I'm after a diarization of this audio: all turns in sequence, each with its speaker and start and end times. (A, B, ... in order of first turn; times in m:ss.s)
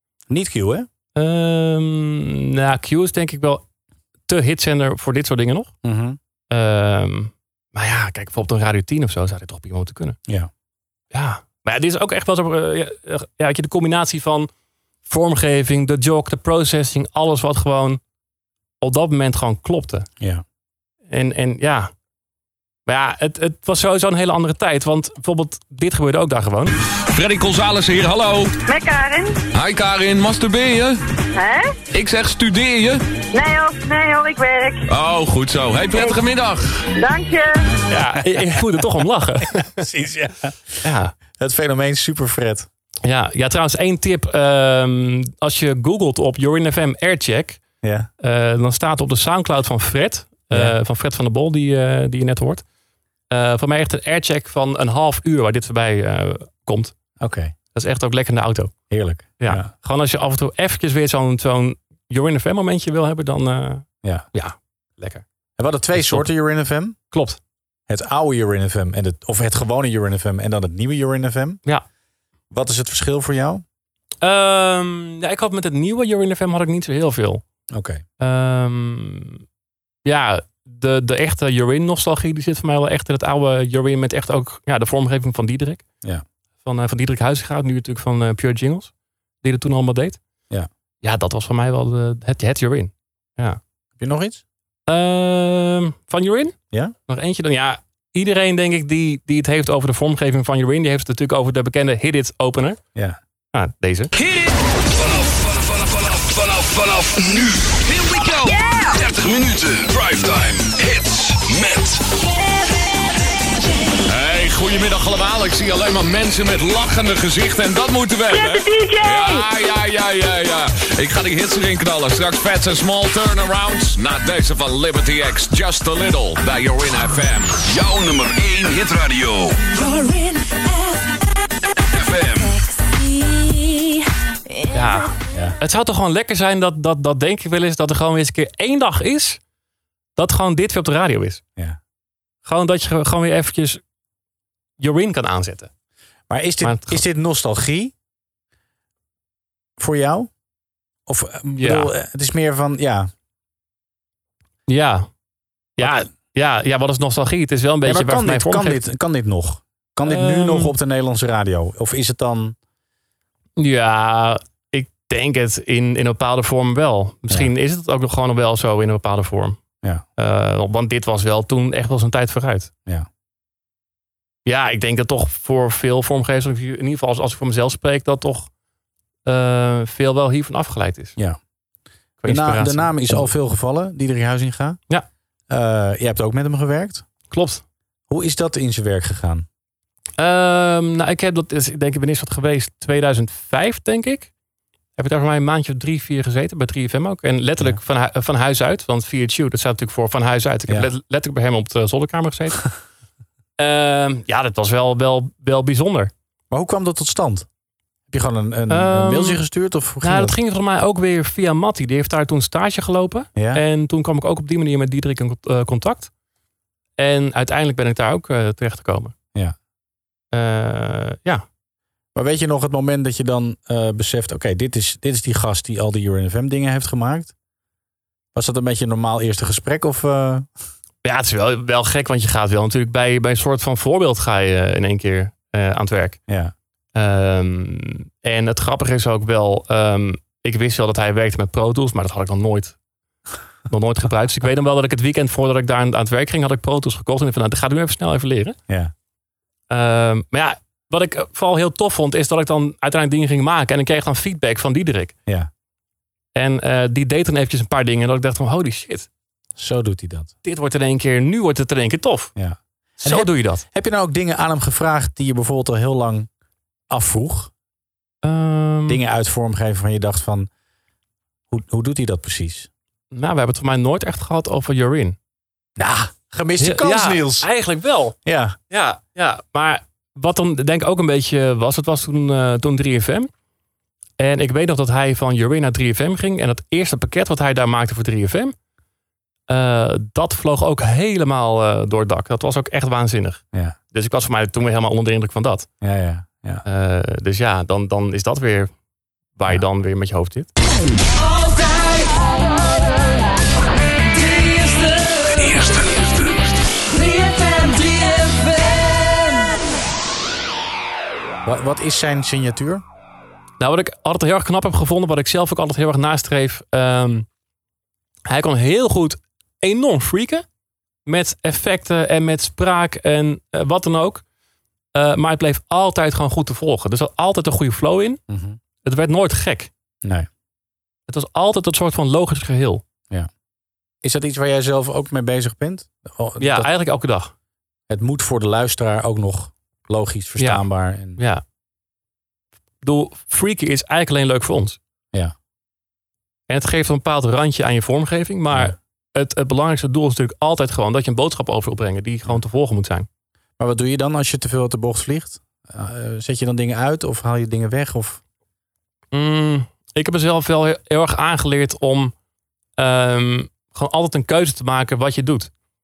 0:00.3-0:00.9 A
0:01.1-0:03.6 B
0:04.3-0:05.7 B
0:05.8-0:06.2 A
0:06.5-0:10.2 B
0:11.1-0:14.5 B
0:15.0-0:18.0 B
0:18.8-0:20.1 B
0:21.1-0:21.9 B
0:22.8-0:26.7 B
0:27.1-0:28.5 C
0:28.7-0:29.4 D
0:29.5-0:31.0 C
0:31.3-0:31.7 D
0:31.9-0:33.0 C
0:33.3-0:34.8 D
0:34.9-0:36.8 C
0:35.9-0:36.2 D
0:37.0-0:37.6 D
0:37.9-0:39.8 B
0:39.8-0:40.8 A
0:40.8-0:41.1 B
0:41.4-0:42.7 A
0:43.0-0:47.6 B
0:47.8-0:48.1 A
0:48.2-0:52.6 B
0:53.3-0:56.9 B
0:57.2-0:57.5 A
0:57.7-0:58.7 B
0:58.9-0:59.7 A
0:59.4-1:05.2 B
1:05.6-1:07.0 A
1:05.9-1:06.2 B
1:07.1-1:07.4 B
1:07.9-1:11.6 A
1:12.5-1:13.6 A
1:14.2-1:17.4 B
1:17.7-1:18.0 A
1:18.2-1:19.4 B
1:20.0-1:25.8 B
1:26.6-1:30.2 B
1:31.0-1:33.6 B
1:34.0-1:34.4 A
1:34.9-1:36.6 B
1:37.1-1:42.8 B
1:43.5-1:44.1 B
1:44.2-1:47.8 E
1:47.8-1:48.6 C
1:48.9-1:52.0 E
1:54.0-2:07.6 C
1:58.3-1:59.4 D
2:07.6-2:09.6 E
2:09.7-2:11.0 F
2:11.9-2:12.6 E
2:12.7-2:14.0 F
2:14.7-2:19.4 B
2:20.2-2:21.4 B
2:22.4-2:23.8 B
2:24.8-2:25.7 B
2:26.3-2:27.9 A
2:26.6-2:27.0 B
2:29.8-2:30.3 A
2:31.1-2:33.1 A
2:31.6-2:31.9 B
2:34.7-2:35.1 B
2:35.8-2:38.8 B
2:37.8-2:42.6 A
2:40.0-2:40.7 B
2:43.6-2:49.6 B
2:50.2-2:52.7 B
2:54.4-2:58.5 B
2:59.2-3:01.1 B
3:02.2-3:03.3 B
3:02.2-3:04.8 A
3:05.5-3:07.0 A
3:07.3-3:07.6 B
3:08.1-3:09.4 A
3:10.2-3:14.3 B
3:15.0-3:22.6 B
3:23.6-3:26.1 B
3:26.5-3:27.5 A
3:28.1-3:30.3 A
3:28.7-3:29.4 B
3:30.0-3:36.1 B
3:33.4-3:33.6 A
3:37.0-3:39.1 B
3:40.3-3:41.4 B
3:42.1-3:47.3 A
3:48.3-3:50.5 A
3:51.0-3:56.2 B
3:56.3-3:56.5 A
3:56.9-4:02.8 B
4:03.7-4:08.6 B
4:09.7-4:15.1 B
4:16.3-4:19.1 B
4:19.6-4:20.3 A
4:20.4-4:22.3 B
4:22.4-4:26.3 A
4:23.0-4:23.6 B
4:26.9-4:27.5 A
4:28.2-4:29.0 B
4:28.9-4:30.5 A
4:31.5-4:32.7 A
4:33.1-4:35.2 B
4:35.8-4:37.5 A
4:36.6-4:38.2 B
4:38.2-4:38.6 A
4:38.7-4:43.3 B
4:44.2-4:48.5 B
4:49.5-4:55.7 B
4:55.8-4:56.6 A
4:56.6-4:58.7 B
4:59.4-5:00.5 B
5:01.2-5:02.8 F
5:04.1-5:05.8 F
5:05.3-5:06.4 E
5:06.9-5:09.5 F
5:11.4-5:12.8 A
5:13.6-5:17.3 B
5:18.3-5:20.4 B
5:21.0-5:24.2 B
5:24.9-5:28.2 B
5:28.3-5:28.6 A
5:28.8-5:29.7 B
5:31.1-5:32.8 B
5:34.0-5:36.7 A
5:36.4-5:37.3 B
5:37.9-5:41.2 A
5:40.4-5:40.6 B
5:41.2-5:41.4 B
5:42.8-5:44.8 B
5:46.5-5:53.1 B
5:53.6-5:58.2 A
5:59.1-6:02.1 B
6:02.8-6:05.5 B